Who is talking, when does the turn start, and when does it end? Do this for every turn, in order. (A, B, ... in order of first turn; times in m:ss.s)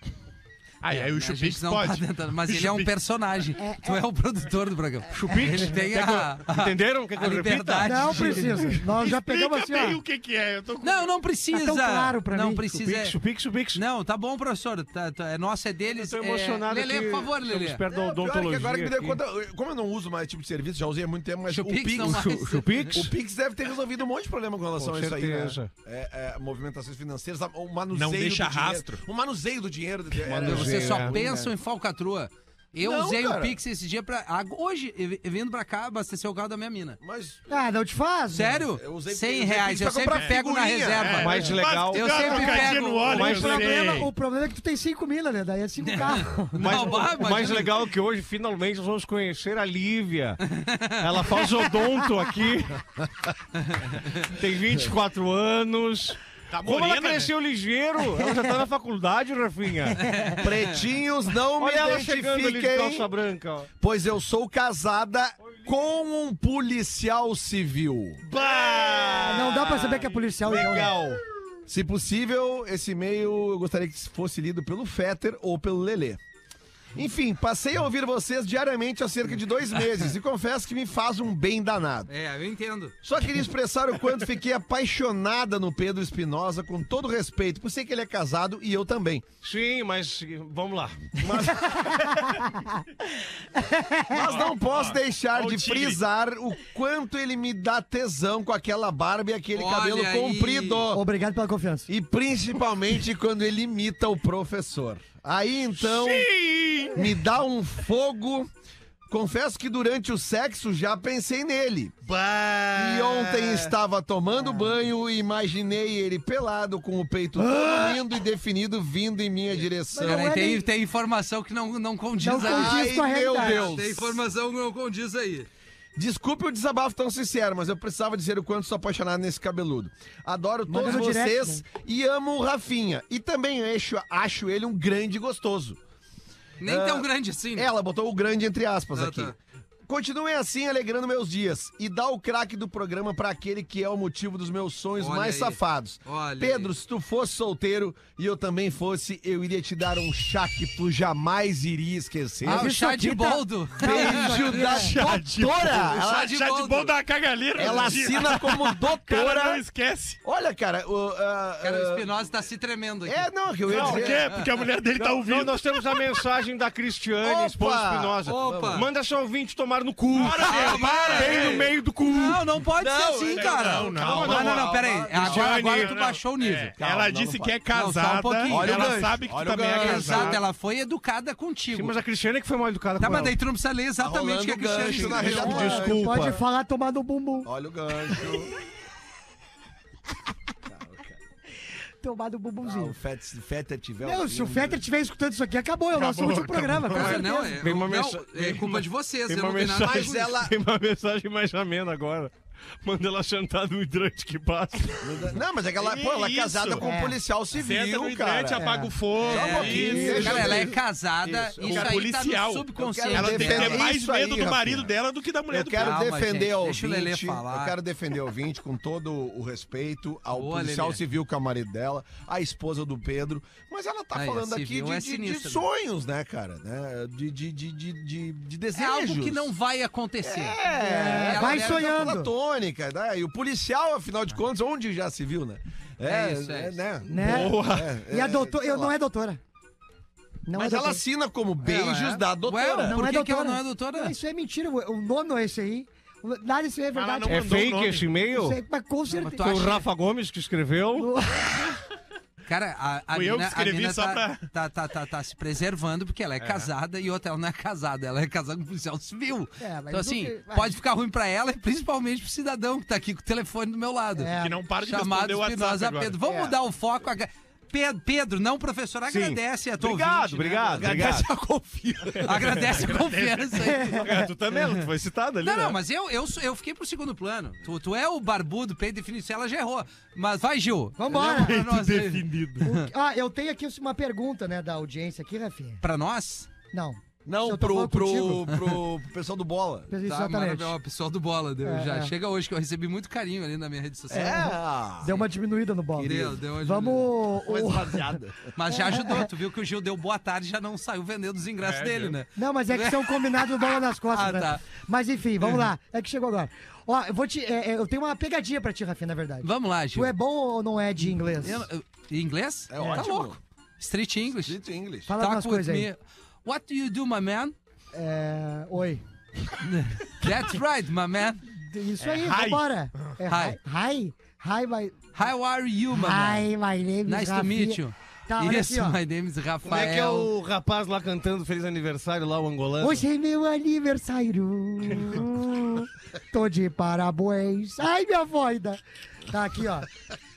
0:00.8-0:02.9 A
0:00.9-0:08.8 B
0:03.6-0:04.0 C
0:05.1-0:08.7 D
0:07.8-0:10.0 C
0:08.9-0:11.1 A
0:10.8-0:13.2 B
0:11.5-0:12.7 C
0:12.7-0:13.8 D
0:13.7-0:17.8 B
0:15.9-0:19.2 D
0:17.9-0:22.4 E
0:21.5-0:23.0 B
0:22.0-0:23.1 D
0:22.9-0:31.5 E
0:24.8-0:25.7 D
0:27.9-0:29.0 A
0:30.2-0:31.2 D
0:30.4-0:37.0 B
0:32.8-0:33.6 E
0:37.0-0:37.6 E
0:37.5-0:38.6 C
0:38.3-0:43.4 B
0:38.7-0:41.3 E
0:41.0-0:44.1 A
0:41.2-0:42.4 D
0:42.0-0:47.1 C
0:43.0-0:44.0 D
0:45.8-0:47.9 B
0:46.5-0:50.4 D
0:50.4-0:51.5 B
0:51.0-0:52.8 D
0:53.7-0:54.2 B
0:54.1-1:00.2 D
0:56.5-0:57.3 A
1:00.0-1:00.7 B
1:00.4-1:03.1 E
1:01.6-1:03.7 D
1:03.8-1:08.2 E
1:08.2-1:11.2 D
1:09.2-1:11.0 C
1:11.7-1:16.2 E
1:16.9-1:22.1 E
1:22.1-1:23.0 B
1:23.0-1:29.2 E
1:29.4-1:32.2 D
1:31.5-1:32.8 C
1:33.5-1:34.3 C
1:34.1-1:41.0 E
1:34.3-1:36.0 A
1:39.5-1:40.8 B
1:40.9-1:41.9 C
1:41.9-1:46.3 E
1:45.8-1:47.2 D
1:46.9-1:48.5 E
1:49.1-1:52.0 E
1:52.0-1:53.7 D
1:52.7-2:00.4 E
1:59.9-2:00.6 C
2:00.0-2:05.5 B
2:02.2-2:03.8 C
2:02.3-2:04.2 E
2:06.0-2:15.8 E
2:10.7-2:11.6 C
2:16.6-2:17.7 B
2:16.6-2:19.4 E
2:18.9-2:19.3 B
2:19.9-2:32.7 E
2:25.0-2:26.7 B
2:32.4-2:35.0 C
2:32.4-2:34.6 B
2:33.8-2:36.4 E
2:34.2-2:40.2 A
2:35.7-2:37.0 B
2:37.5-2:39.6 E
2:37.6-2:37.9 B
2:40.2-2:42.1 E
2:41.6-2:44.4 B
2:43.0-2:44.2 E
2:43.7-2:44.1 D
2:43.7-2:45.6 A
2:44.9-2:52.5 D
2:47.2-2:48.8 E
2:48.2-2:48.9 B
2:50.1-2:51.7 A
2:50.4-2:56.7 B
2:50.4-2:51.5 E
2:52.8-2:55.8 E
2:53.4-2:54.7 A
2:54.0-2:54.7 D
2:55.2-3:00.4 A
2:55.5-2:55.9 D
2:56.8-2:57.5 E
2:57.7-2:58.9 B
2:58.5-3:00.4 E
2:59.8-3:02.0 B
3:01.7-3:03.4 D
3:03.0-3:05.7 B
3:04.0-3:06.4 E
3:04.8-3:06.4 D
3:05.3-3:07.5 C
3:07.4-3:08.5 E
3:10.6-3:11.2 E
3:12.0-3:12.9 C
3:12.6-3:14.8 E
3:14.0-3:17.6 C
3:15.9-3:17.3 A
3:16.9-3:20.3 B
3:17.4-3:25.3 D
3:19.8-3:20.5 E
3:25.0-3:32.0 E
3:25.8-3:26.8 A
3:26.8-3:27.2 C
3:27.5-3:30.6 A
3:28.6-3:28.9 C
3:29.2-3:33.9 B
3:29.7-3:30.7 D
3:31.6-3:36.0 A
3:32.8-3:34.9 E
3:35.5-3:49.5 E
3:35.8-3:37.8 B
3:40.3-3:41.0 B
3:44.1-3:45.6 B
3:48.7-3:50.6 B
3:50.2-3:58.9 E
3:50.7-3:52.3 C
3:51.2-3:51.9 B
3:56.0-3:56.8 B
3:57.0-3:59.4 C
3:57.1-3:57.9 A
4:00.4-4:01.0 C
4:00.5-4:03.0 E
4:01.6-4:04.1 B
4:02.8-4:07.7 C
4:06.9-4:08.1 A
4:07.2-4:08.6 D
4:08.3-4:09.4 C
4:09.1-4:09.9 B
4:09.4-4:11.1 D
4:10.9-4:11.7 C
4:12.5-4:31.3 B
4:13.1-4:14.5 A
4:16.4-4:16.7 A
4:19.6-4:20.8 C
4:24.2-4:24.6 C
4:24.3-4:26.2 A
4:29.1-4:33.0 D
4:30.9-4:31.2 E
4:32.1-4:34.0 B
4:32.4-4:33.7 A
4:33.6-4:34.3 C
4:33.9-4:35.8 D
4:35.4-4:42.8 B
4:41.0-4:41.6 C
4:41.2-4:42.6 A
4:42.6-4:45.8 C
4:45.8-4:46.5 B
4:46.7-4:48.5 C
4:47.2-4:49.9 E
4:49.9-4:50.7 C
4:50.0-4:54.5 B
4:51.6-4:52.1 C
4:54.1-4:55.2 E
4:54.1-4:59.3 C
4:56.0-4:56.4 E
4:56.0-4:57.1 B
4:57.3-4:58.5 E
4:58.5-5:04.6 B
5:01.6-5:02.2 A
5:02.4-5:11.7 C
5:09.4-5:10.1 B
5:11.4-5:14.6 B
5:12.7-5:13.4 E
5:14.4-5:15.1 E
5:15.1-5:15.9 C
5:15.1-5:17.5 B
5:17.9-5:19.0 C
5:19.6-5:21.4 B
5:21.5-5:25.0 C
5:22.0-5:23.1 A
5:23.3-5:23.6 B
5:25.1-5:26.5 B
5:25.9-5:29.0 C
5:27.0-5:30.3 B
5:29.7-5:30.0 E
5:29.7-5:33.0 D
5:32.8-5:39.9 C